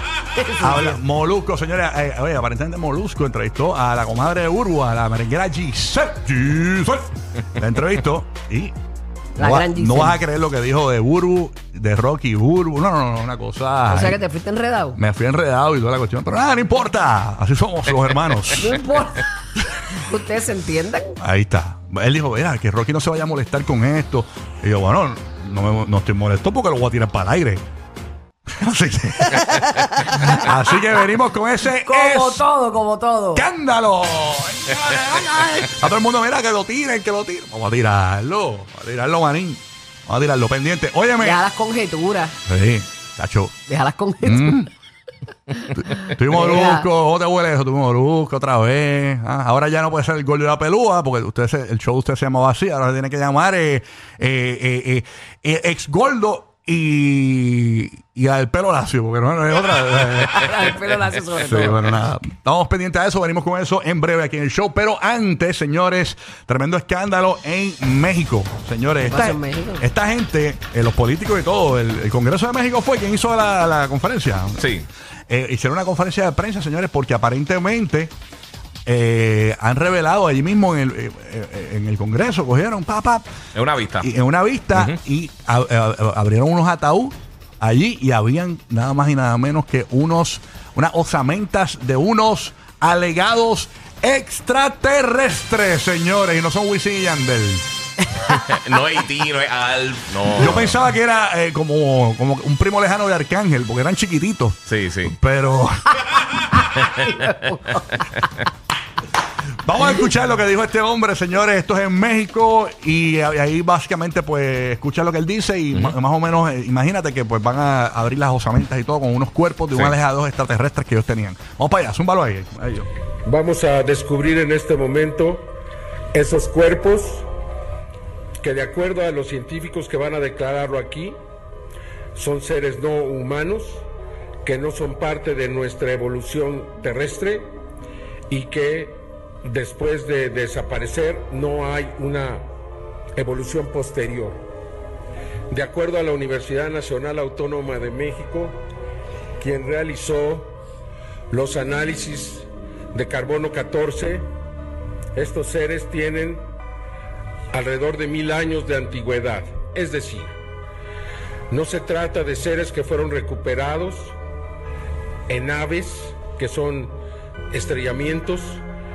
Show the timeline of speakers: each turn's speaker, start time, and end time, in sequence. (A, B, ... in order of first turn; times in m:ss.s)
0:00.3-0:01.0 A
0:00.6-0:08.7 B
0:09.4-0:10.2 A
0:09.4-0:14.2 B
0:13.9-0:15.0 A
0:15.0-0:18.8 B
0:18.0-0:18.7 C
0:18.6-0:19.3 A
0:19.9-0:21.2 A
0:21.2-0:27.6 B
0:28.5-0:29.7 B
0:30.3-0:32.4 B
0:31.8-0:33.5 A
0:33.3-0:41.4 B
0:41.2-0:42.3 A
0:42.5-0:43.5 B
0:43.6-0:44.6 A
0:44.2-0:44.7 B
0:45.7-1:00.7 B
0:46.3-0:46.9 A
1:00.3-1:01.9 A
1:01.3-1:14.6 B
1:09.0-1:09.9 A
1:14.6-1:14.9 C
1:15.3-1:18.1 B
1:18.8-1:23.2 B
1:23.5-1:24.1 C
1:24.0-1:37.6 B
1:38.3-1:40.8 C
1:40.4-1:46.6 B
1:44.7-1:45.2 C
1:46.8-1:47.3 C
1:46.9-1:48.0 A
1:48.0-1:48.4 C
1:49.6-2:02.9 B
1:59.7-2:00.0 C
2:03.2-2:05.5 D
2:06.1-2:07.2 D
2:08.4-2:11.2 D
2:12.1-2:13.8 D
2:14.4-2:17.5 D
2:18.3-2:22.4 D
2:23.2-2:24.4 D
2:25.5-2:28.6 D
2:29.4-2:30.5 D
2:31.3-2:34.3 D
2:35.1-2:36.4 D
2:37.5-2:40.3 D
2:41.5-2:44.2 D
2:45.3-2:46.9 D
2:47.5-2:48.6 D